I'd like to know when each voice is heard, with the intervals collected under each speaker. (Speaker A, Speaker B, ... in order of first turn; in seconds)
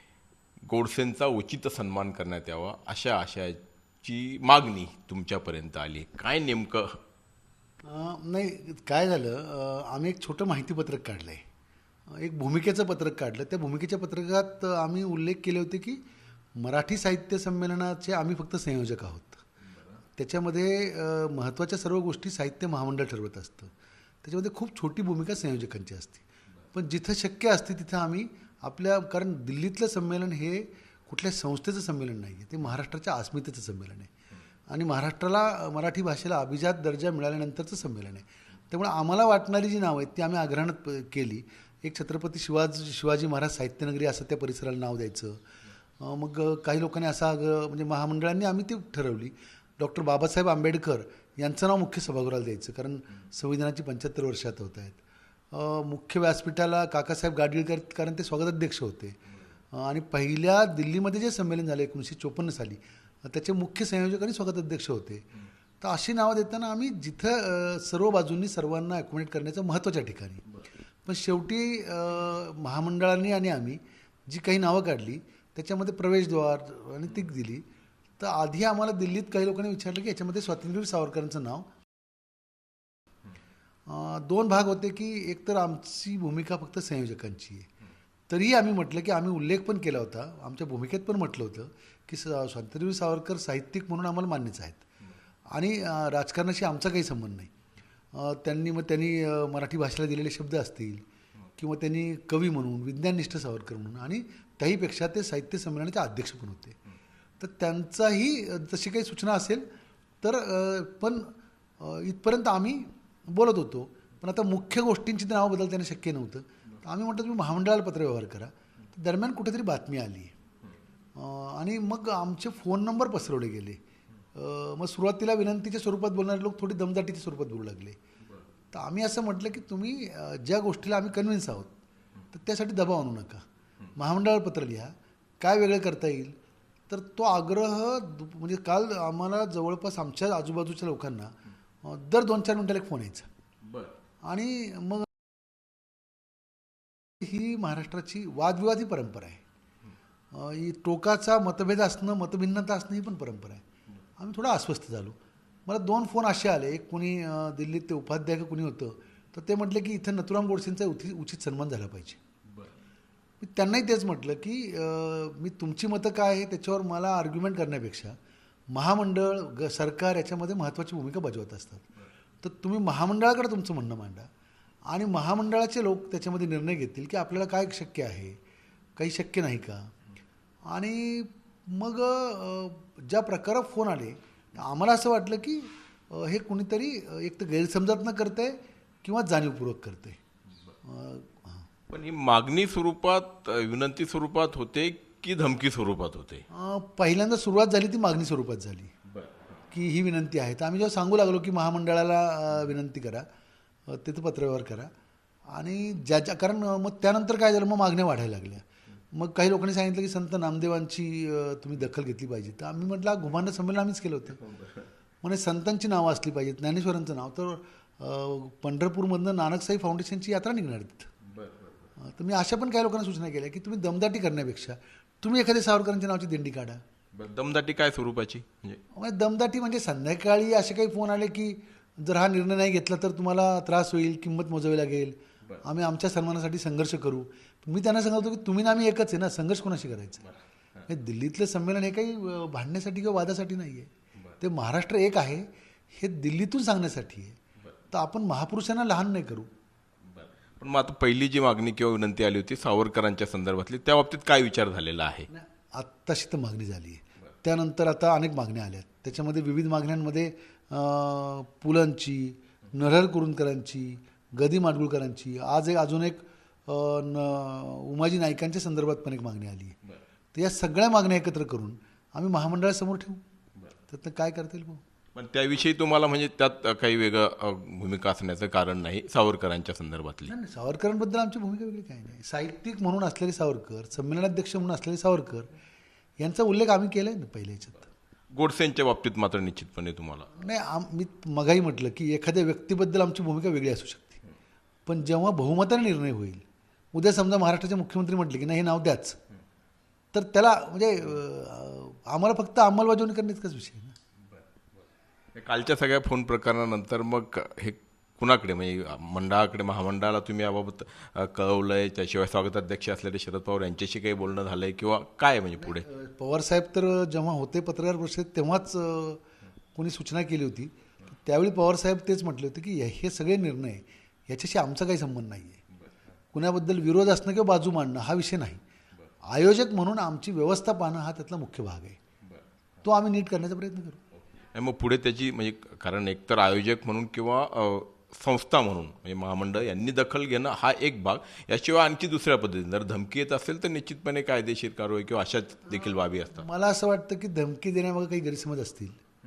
Speaker A: 0.7-7.0, 143.7-143.9, 191.9-196.4, 214.4-214.9, 221.3-221.9, 227.1-228.8, 250.1-255.3, 275.1-280.3, 288.3-290.3, 305.4-315.8, 334.5-346.4
Speaker B: 7.8-11.4, 12.1-16.0, 16.6-19.4, 20.2-34.1, 34.7-45.4, 46.0-59.2, 59.7-65.3, 65.8-70.4, 71.0-77.6, 78.2-81.7, 83.9-87.7, 88.3-94.8, 95.5-97.5, 98.1-101.0, 101.6-106.8, 107.4-109.6, 110.2-120.3, 121.2-123.8, 124.3-128.0, 128.7-131.7, 132.3-133.4, 133.9-136.3, 136.9-143.3, 144.2-145.1, 147.2-149.4, 150.3-153.6, 154.2-155.2, 155.7-162.2, 163.4-168.1, 168.7-171.9, 172.4-174.3, 174.9-178.4, 179.0-179.9, 180.7-190.2, 190.8-191.7, 196.5-198.9, 199.7-203.2, 203.9-204.9, 205.5-214.4, 215.2-221.1, 222.0-226.8, 228.9-240.3, 240.9-247.4, 247.9-249.5, 255.3-269.8, 270.3-273.2, 273.9-274.8, 280.3-285.5, 286.2-287.9, 290.3-294.2, 294.9-299.2, 300.1-303.9, 315.6-319.2, 319.8-325.6, 326.3-328.6, 329.3-332.0, 332.8-334.0, 345.9-349.0